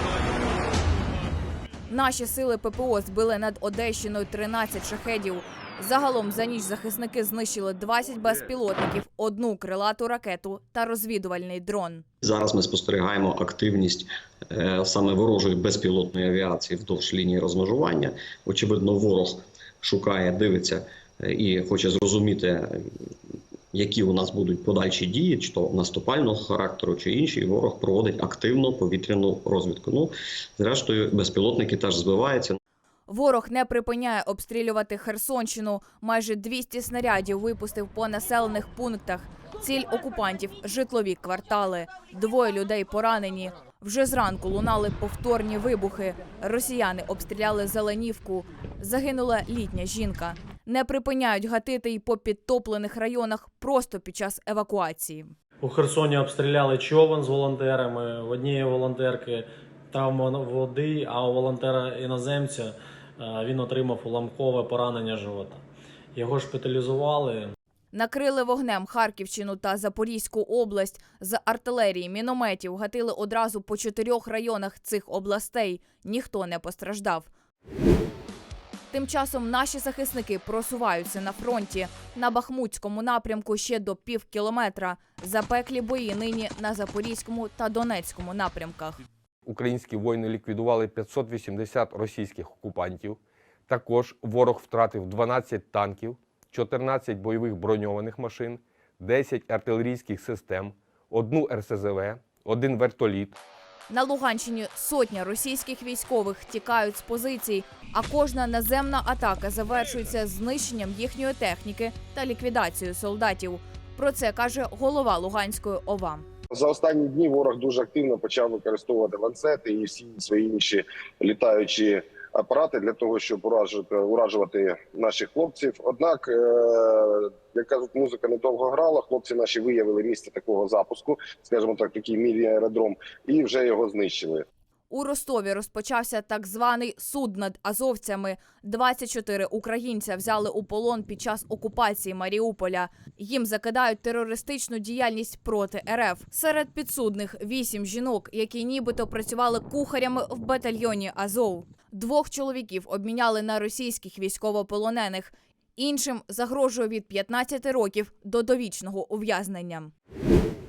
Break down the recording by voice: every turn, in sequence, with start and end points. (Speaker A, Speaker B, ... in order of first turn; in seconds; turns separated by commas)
Speaker A: 1.9-12.0, Speaker B: 12.2-23.1, Speaker B: 23.7-32.6, Speaker A: 33.1-55.3, Speaker C: 55.6-65.6, Speaker C: 66.2-67.5, Speaker A: 67.9-77.3, Speaker A: 78.9-89.0, Speaker D: 89.5-103.3, Speaker A: 103.9-116.2, Speaker E: 116.5-134.4, Speaker A: 134.9-159.9